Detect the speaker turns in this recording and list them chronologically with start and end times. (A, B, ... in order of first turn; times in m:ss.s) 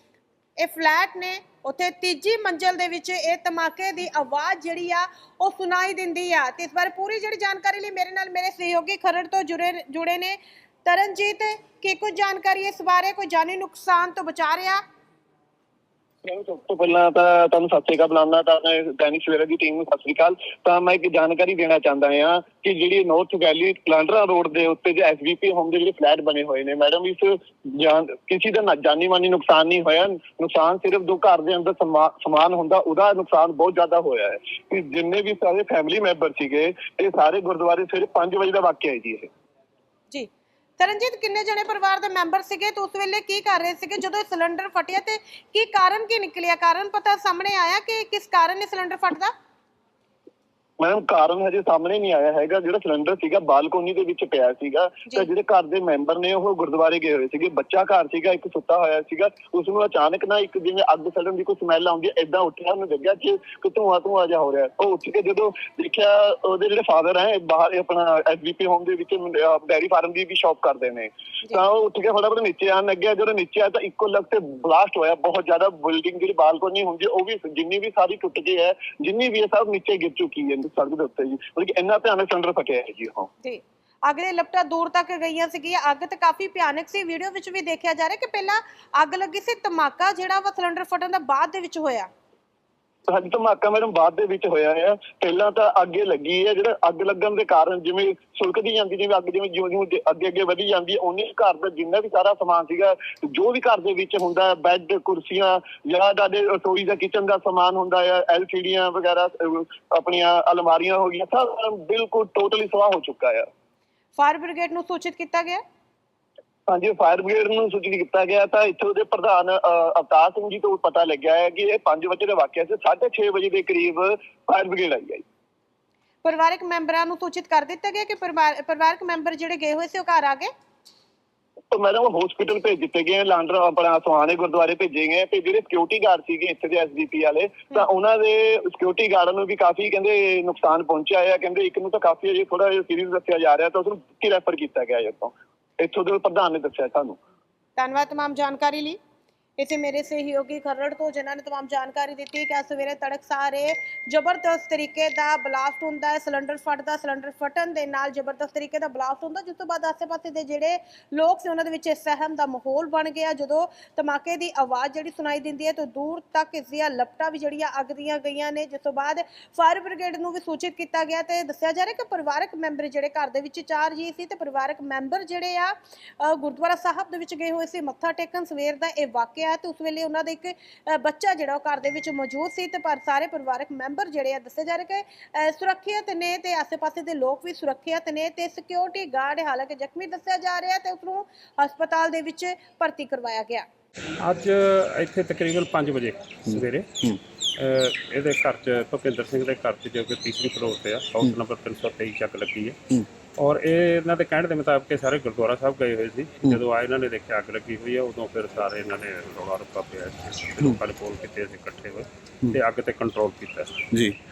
0:00.6-0:14.8 A
0:16.2-0:39.3 B
0:40.1-0:49.3 A
0:50.8-1:23.3 B
1:23.4-1:32.1 A
1:33.1-1:53.4 B
1:54.2-1:55.6 A
1:56.7-2:05.2 B
2:06.2-2:10.5 A
2:11.7-2:27.2 B
2:27.8-2:29.0 A
2:29.6-3:13.6 A
3:14.2-3:16.9 C
3:16.5-3:17.2 B
3:17.6-3:22.8 C
3:23.4-3:33.7 C
3:33.9-3:34.2 B